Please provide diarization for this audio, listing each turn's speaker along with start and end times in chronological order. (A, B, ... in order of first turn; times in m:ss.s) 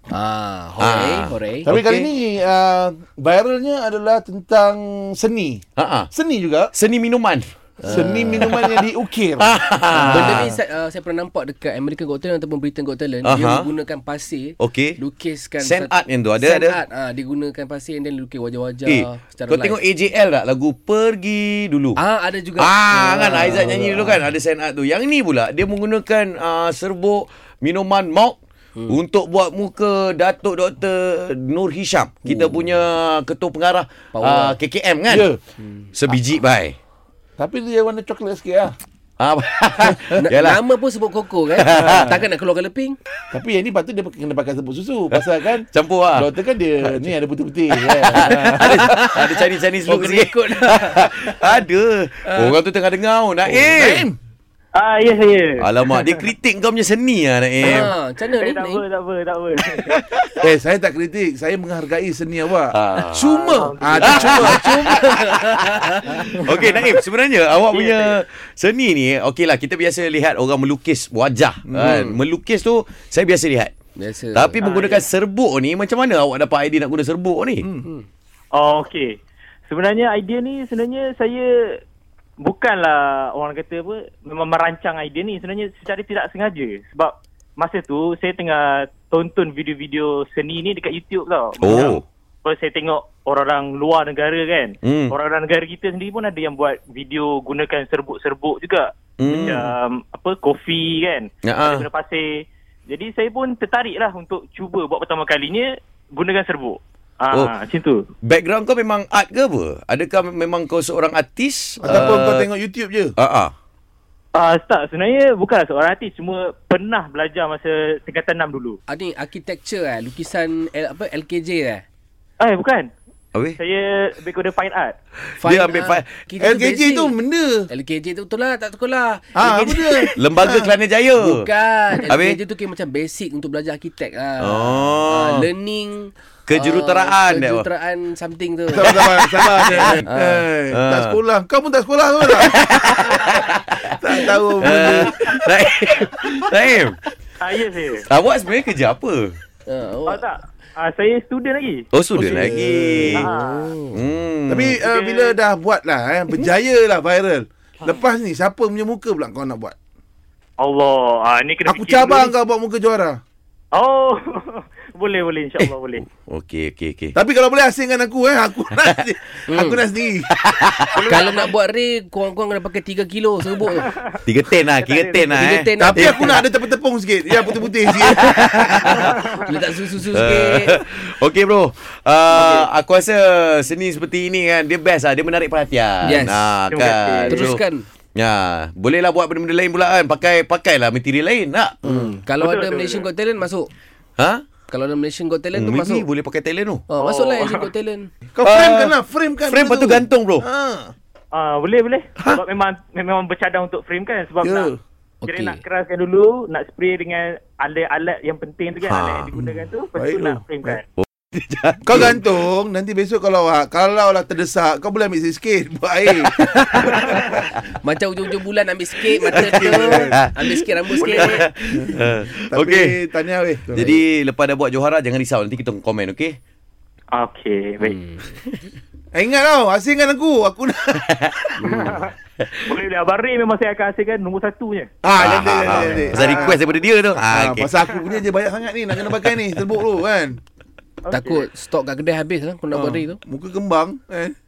0:00.1-0:01.7 A
0:00.8-0:02.1 B
0:01.6-0:06.7 C
0:05.8-0:06.1 B
0:06.7-0:08.8 B
0:07.8-0:08.5 A
0:07.9-0:09.5 C
0:09.4-0:10.5 B
0:09.9-0:19.8 A
0:13.2-0:13.7 B
0:14.6-0:15.0 B
0:15.6-0:16.8 B
0:18.9-0:22.0 B
0:22.0-0:24.2 A
0:22.6-0:35.3 B
0:34.1-0:34.6 A
0:35.1-0:35.4 C
0:35.9-0:36.8 B
0:37.4-0:38.8 C
0:39.2-0:40.6 B
0:40.0-0:43.0 A
0:41.5-0:42.2 B
0:43.3-0:49.1 C
0:45.1-0:46.3 B
0:47.8-0:49.3 A
0:48.1-0:54.1 B
0:49.9-0:51.6 A
0:53.4-0:54.2 C
0:54.7-0:56.1 D
0:55.6-0:57.9 B
0:57.6-0:58.8 A
0:57.7-1:00.0 D
0:59.8-1:00.4 B
1:00.4-1:05.4 C
1:02.7-1:03.3 B
1:03.2-1:04.6 D
1:04.0-1:06.3 A
1:04.0-1:13.7 B
1:07.7-1:08.2 D
1:11.7-1:12.1 C
1:14.0-1:14.6 A
1:14.3-1:17.7 B
1:14.6-1:15.1 D
1:17.6-1:17.9 C
1:18.5-1:19.2 D
1:19.7-1:21.8 D
1:22.4-1:48.1 D
1:31.6-1:32.0 B
1:34.8-1:35.1 B
1:39.2-1:39.7 B
1:41.4-1:41.9 B
1:48.2-1:52.5 B
1:51.8-1:53.1 C
1:53.2-1:53.5 B
1:54.3-1:58.8 D
1:58.9-2:01.8 A
2:02.4-2:02.9 D
2:03.3-2:03.6 B
2:03.6-2:05.0 D
2:05.3-2:06.1 B
2:05.4-2:07.1 A
2:06.4-2:07.7 C
2:07.7-2:10.1 A
2:09.4-2:10.7 C
2:10.2-2:11.4 B
2:11.2-2:19.0 A
2:12.1-2:12.4 B
2:14.4-2:15.5 B
2:16.5-2:17.7 B
2:18.7-2:25.2 C
2:18.8-2:20.1 B
2:19.7-2:20.4 A
2:20.7-2:21.2 B
2:22.4-2:27.0 B
2:27.4-2:28.0 D
2:28.1-2:29.4 B
2:29.7-2:30.2 A
2:30.1-2:31.9 D
2:31.9-2:33.3 B
2:32.2-2:33.3 C
2:33.1-2:33.7 D
2:33.3-2:34.0 A
2:33.9-2:34.8 B
2:34.5-2:39.8 C
2:34.8-2:35.4 D
2:40.6-2:42.3 D
2:41.7-2:43.2 C
2:43.7-2:46.0 D
2:46.3-2:47.2 B
2:47.2-2:50.3 C
2:49.5-2:49.8 A
2:50.4-2:51.2 B
2:50.9-2:51.5 D
2:51.1-2:53.9 A
2:54.2-2:56.4 B
2:54.8-2:55.4 D
2:55.3-2:56.4 A
2:55.8-2:59.2 C
2:57.9-2:59.2 B
2:59.3-3:00.8 A
3:00.1-3:07.6 B
3:02.4-3:02.7 A
3:06.0-3:06.5 A
3:06.7-3:07.6 D
3:07.3-3:07.9 A
3:08.2-3:12.1 B
3:11.8-3:13.7 A
3:12.4-3:13.1 D
3:14.2-3:14.5 B
3:14.7-3:16.1 A
3:15.5-3:16.8 B
3:16.9-3:18.1 A
3:17.0-3:17.6 D
3:18.3-3:20.9 C
3:18.4-3:19.0 B
3:19.5-3:20.5 B
3:21.3-3:24.7 D
3:24.4-3:24.8 C
3:25.2-3:25.6 A
3:25.3-3:30.9 D
3:28.8-3:29.3 B
3:30.0-3:30.8 C
3:31.0-3:32.2 B
3:31.8-3:37.5 C
3:36.4-3:41.5 A
3:39.3-3:43.0 B
3:39.3-3:40.2 C
3:41.7-3:44.0 C
3:43.7-3:46.4 B
3:47.1-3:48.0 D
3:47.8-3:48.3 A
3:49.1-3:51.0 C
3:51.1-3:51.5 B
3:51.6-3:52.1 A
3:51.7-3:52.1 D
3:52.4-3:52.7 B
3:52.7-3:54.9 D
3:55.0-3:56.6 C
3:55.2-3:57.7 B
3:56.1-3:56.6 D
3:57.3-4:00.4 C
3:59.1-3:59.7 B
4:01.0-4:01.5 D
4:01.1-4:03.2 A
4:02.7-4:04.4 C